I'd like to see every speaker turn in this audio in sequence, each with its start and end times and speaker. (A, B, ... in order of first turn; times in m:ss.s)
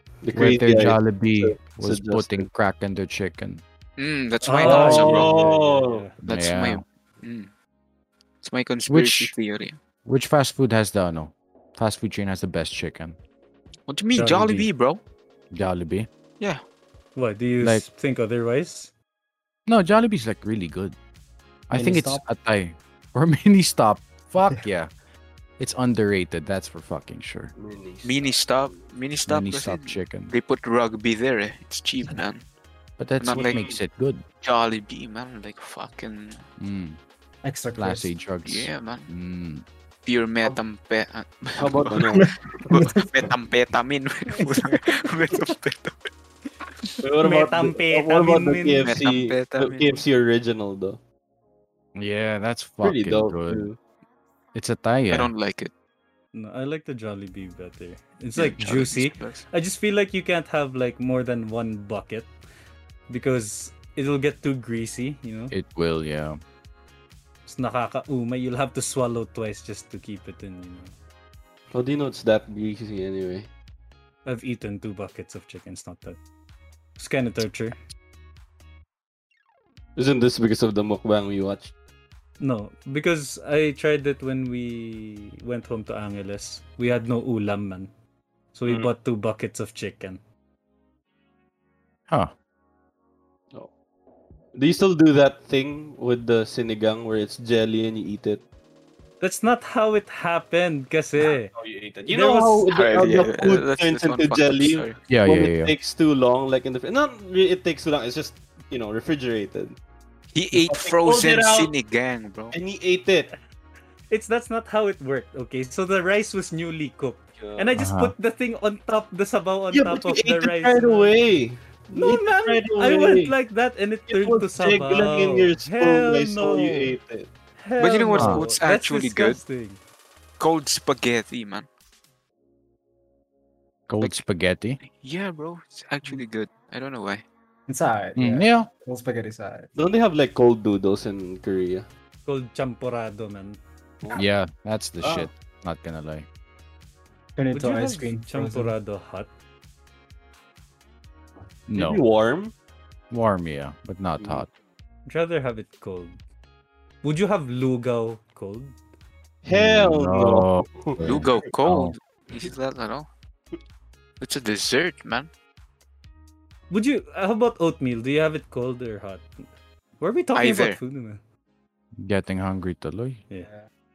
0:00.2-0:02.5 A
0:00.3-0:03.6 B
0:04.0-0:05.3 C
0:04.4-0:06.2 D
0:04.6-0:06.0 A
0:06.2-0:06.8 B
0:06.2-0:07.5 C
0:08.4-0:09.8 C
0:08.9-0:09.3 B
0:10.0-0:13.2 B
0:13.9-0:15.0 C
0:14.1-0:14.7 D
0:15.5-0:16.1 B
0:17.2-0:18.9 D
0:17.6-0:17.8 B
0:19.6-0:21.0 B
0:21.7-0:24.9 B
0:21.7-0:22.2 E
0:25.6-0:27.5 B
0:27.6-0:28.8 A
0:28.0-0:32.4 C
0:29.2-0:30.3 B
0:33.0-0:34.2 B
0:33.2-0:33.7 C
0:33.3-0:33.8 A
0:34.4-0:36.4 C
0:36.6-0:37.0 B
0:37.4-0:38.1 E
0:37.8-0:39.6 B
0:38.4-0:39.1 C
0:40.0-0:42.2 C
0:41.6-0:42.3 A
0:42.1-0:43.1 E
0:42.7-0:46.1 C
0:44.3-0:45.0 D
0:47.0-0:51.0 A
0:47.2-0:48.9 D
0:48.8-0:50.0 C
0:52.0-0:53.7 B
0:52.8-0:53.8 A
0:54.5-0:55.3 B
0:55.1-0:55.7 C
0:56.3-1:02.3 D
0:58.4-0:59.4 C
1:03.1-1:05.5 D
1:05.5-1:06.4 B
1:07.4-1:11.0 D
1:11.7-1:13.5 A
1:14.2-1:16.2 D
1:17.0-1:17.8 D
1:20.0-1:21.7 A
1:22.4-1:27.9 D
1:28.5-1:30.2 D
1:32.1-1:32.3 B
1:34.5-1:38.4 A
1:39.2-1:41.5 D
1:41.2-1:49.8 A
1:42.1-1:42.7 D
1:42.7-1:45.0 C
1:45.1-1:45.7 B
1:50.3-1:52.5 C
1:50.5-1:51.7 A
1:52.5-1:53.3 A
1:54.1-2:01.1 D
1:57.4-1:57.8 A
1:57.8-1:58.1 B
1:59.7-2:03.3 A
2:01.9-2:07.0 D
2:04.1-2:07.3 A
2:07.6-2:09.8 D
2:07.8-2:09.4 C
2:08.1-2:08.4 B
2:10.4-2:11.7 C
2:13.9-2:14.8 B
2:14.8-2:17.2 C
2:17.7-2:19.7 E
2:18.2-2:18.7 B
2:19.7-2:21.8 A
2:22.2-2:23.6 D
2:24.1-2:26.3 B
2:25.0-2:25.3 A
2:27.4-2:28.8 E
2:27.5-2:29.3 D
2:31.7-2:32.0 B
2:31.7-2:32.5 A
2:33.1-2:34.5 B
2:34.2-2:34.4 A
2:35.0-2:36.2 D
2:37.0-2:38.7 D
2:39.4-2:41.3 A
2:39.5-2:41.9 B
2:41.0-2:43.1 C
2:44.2-2:45.3 C
2:46.7-2:51.2 D
2:50.3-2:50.8 C
2:52.0-2:53.2 B